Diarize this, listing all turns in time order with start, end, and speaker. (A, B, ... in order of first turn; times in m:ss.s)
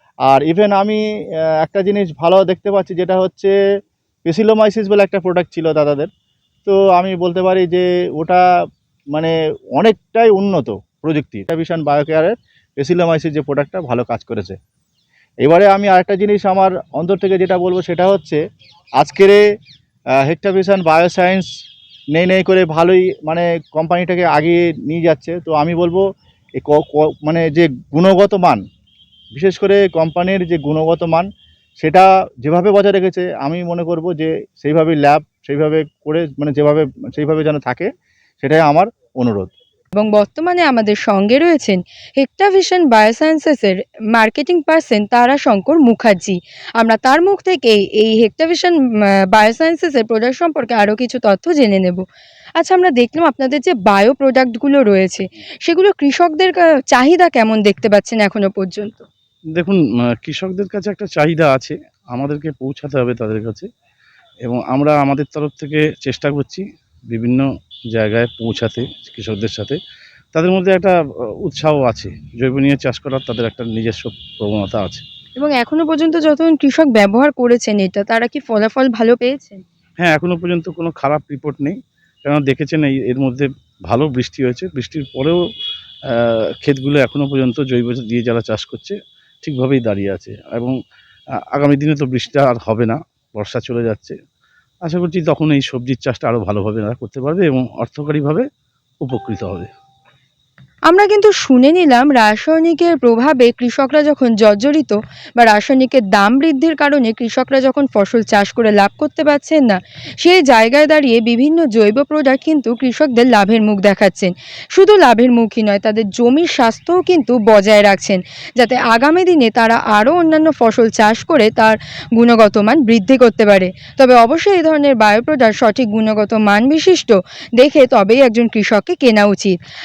0:00.3-0:01.0 A
0:01.6-0:03.5 A
0:04.2-0:06.1 A
0:06.6-0:08.4 A
0:09.1-0:14.6 A
0:15.4-0:18.4 A
0:19.0-0:19.4 A
0:20.2-0:21.5 A
0:22.1-0:26.0 A
0:26.6-0:28.6 A
0:29.3-0:31.3 A
0:31.8-0:39.5 A
0:40.0-0:52.0 B
0:52.6-0:59.1 B
0:59.5-1:03.7 C
1:04.4-1:09.8 C
1:10.3-1:15.0 C
1:15.4-1:19.6 B
1:20.0-1:25.4 C
1:26.1-1:30.8 C
1:31.4-1:34.2 C
1:34.8-1:38.5 C
1:39.0-1:39.7 C
1:40.9-2:09.6 B